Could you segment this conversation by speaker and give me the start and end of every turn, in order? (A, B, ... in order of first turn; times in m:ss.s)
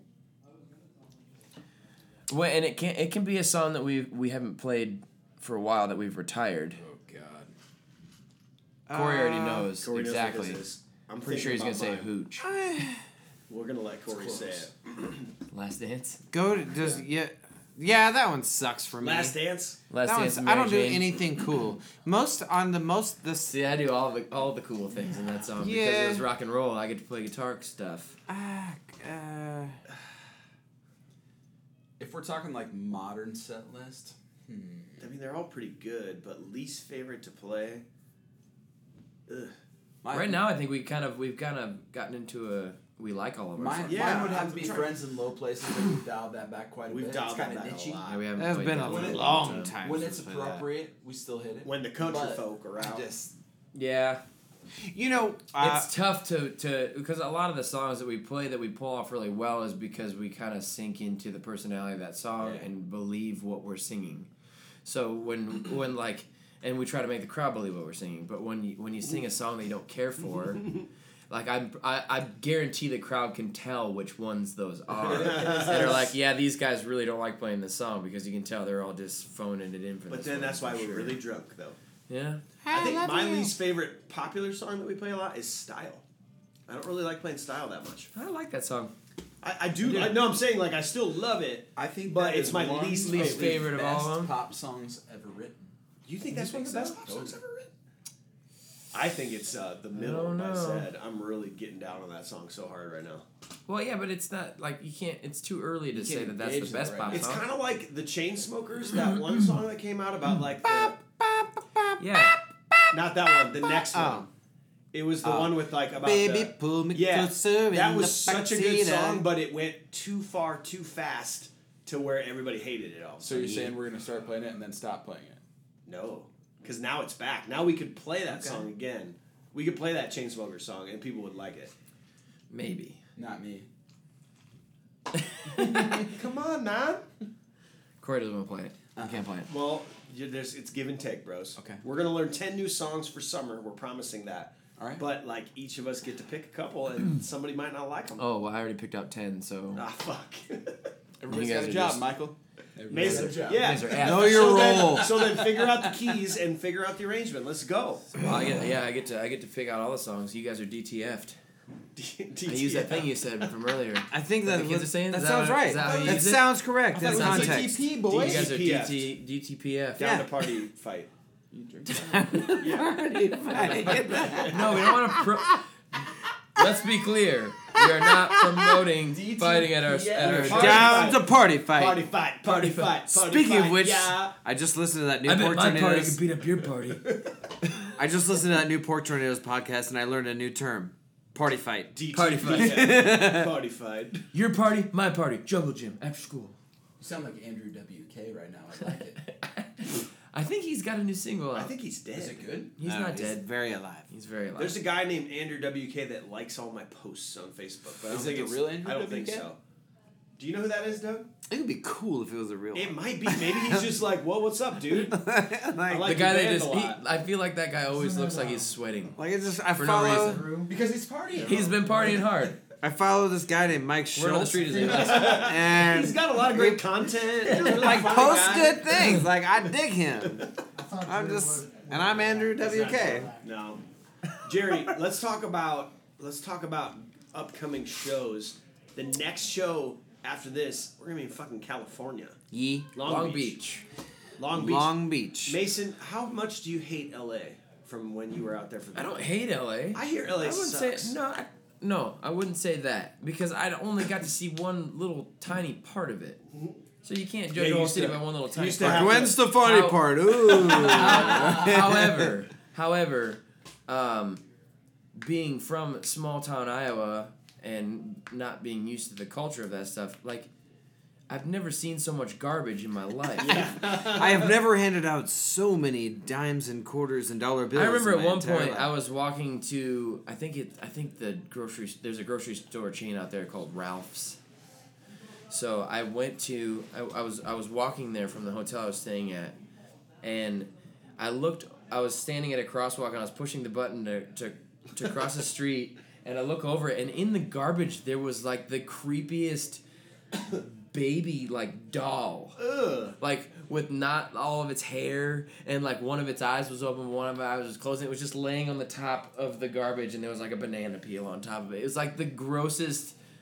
0:02.3-0:06.8 A
0:06.8-0:07.5 B
0:08.9-0:09.7 C
0:08.9-0:10.6 A
0:09.8-0:12.1 D
0:11.2-0:12.5 A
0:12.4-0:13.0 C
0:13.5-0:14.7 D
0:14.1-0:14.7 B
0:15.5-0:16.2 A
0:16.3-0:19.4 C
0:19.0-0:19.8 D
0:19.9-0:21.2 A
0:20.1-0:23.5 C
0:23.5-0:28.1 A
0:25.6-0:26.3 C
0:28.3-0:29.8 C
0:32.0-0:35.1 B
0:35.0-0:37.8 D
0:39.3-0:39.5 D
0:40.0-0:40.4 B
0:40.1-0:44.2 A
0:43.6-0:53.4 B
0:43.9-0:45.0 D
0:46.9-0:48.2 D
0:48.1-0:49.7 A
0:48.4-0:50.7 C
0:51.6-0:53.1 D
0:53.7-0:54.2 A
0:54.8-0:55.9 C
0:55.6-1:04.3 A
1:02.4-1:02.7 B
1:04.8-1:10.7 A
1:11.3-1:21.2 A
1:15.0-1:16.1 D
1:15.1-1:16.0 B
1:20.1-1:21.8 D
1:22.1-1:22.4 A
1:22.6-1:23.5 C
1:22.7-1:26.0 D
1:26.7-1:28.1 D
1:28.1-1:28.9 A
1:29.4-1:33.7 D
1:31.8-1:35.7 B
1:33.0-1:34.3 A
1:36.0-1:37.7 D
1:36.3-1:37.4 B
1:38.9-1:43.2 D
1:40.0-1:40.9 A
1:43.7-1:47.5 A
1:45.9-1:47.4 B
1:47.1-1:51.0 D
1:48.9-1:49.2 A
1:50.6-1:54.3 C
1:52.0-1:52.4 A
1:52.9-1:54.3 D
1:54.9-2:03.7 D
1:55.2-1:59.2 C
2:03.2-2:05.4 B
2:05.9-2:11.7 D
2:12.5-2:13.0 A
2:13.2-2:13.7 B
2:15.2-2:16.0 A
2:15.6-2:15.9 B
2:15.9-2:17.0 D
2:18.0-2:19.5 A
2:19.0-2:19.3 B
2:19.5-2:28.2 D
2:21.6-2:21.8 B
2:24.8-2:25.0 B
2:28.2-2:29.8 A
2:29.8-2:30.9 D
2:31.2-2:33.9 B
2:31.3-2:32.0 A
2:32.9-2:38.2 D
2:32.9-2:34.8 A
2:33.9-2:35.4 C
2:34.8-2:35.7 B
2:38.2-2:41.4 A
2:42.0-2:43.2 D
2:42.5-2:50.2 A
2:44.1-2:47.8 C
2:45.8-2:46.2 D
2:46.9-2:48.5 B
2:47.9-2:49.1 D
2:50.0-2:51.1 D
2:50.0-2:50.5 C
2:51.5-2:52.6 B
2:52.0-2:55.5 C
2:52.6-2:52.9 D
2:53.5-2:54.6 B
2:53.6-2:54.8 D
2:53.7-2:54.0 A
2:54.5-2:55.6 A
2:56.5-3:01.0 A
2:57.8-2:58.7 C
2:59.0-3:01.0 B
3:00.2-3:02.0 C
3:00.2-3:04.3 D
3:02.5-3:03.5 A
3:03.2-3:06.2 C
3:05.2-3:07.1 A
3:08.0-3:13.5 C
3:11.9-3:14.2 D
3:12.1-3:13.0 A
3:14.3-3:16.6 A
3:17.0-3:19.2 B
3:18.9-3:21.7 A
3:21.5-3:22.6 D
3:22.1-3:22.7 B
3:22.8-3:23.5 A
3:22.8-3:24.1 C
3:24.1-3:24.8 A
3:24.6-3:29.6 D
3:28.0-3:29.5 B
3:30.4-3:31.3 D
3:31.5-3:34.0 C
3:32.7-3:35.2 D
3:35.0-3:36.2 C
3:35.9-3:37.0 D
3:36.0-3:39.2 A
3:39.2-3:40.5 C
3:39.7-3:40.5 A
3:40.7-3:42.2 B
3:41.4-3:41.6 D
3:41.4-3:42.6 A
3:42.8-3:46.8 C
3:44.2-3:45.5 A
3:44.8-3:49.2 D
3:47.5-3:50.5 C
3:47.5-3:47.8 A
3:47.6-3:48.8 B
3:50.8-3:53.4 E
3:51.0-3:53.3 C
3:52.7-3:53.8 D
3:54.4-4:02.4 D
4:02.5-4:02.9 C
4:02.9-4:03.6 D
4:03.0-4:03.8 A
4:04.4-4:09.3 D
4:04.5-4:05.6 C
4:09.0-4:16.4 A
4:09.9-4:11.2 D
4:16.5-4:16.8 D
4:17.0-4:24.4 A
4:17.5-4:19.4 D
4:18.8-4:22.3 C
4:20.5-4:21.5 D
4:25.2-4:30.5 A
4:31.3-4:33.7 A
4:33.4-4:34.5 D
4:33.5-4:38.9 C
4:37.7-4:44.4 A
4:45.5-4:49.6 A
4:50.2-4:59.8 A
5:00.5-5:02.6 A
5:02.6-5:03.2 D
5:03.2-5:13.2 A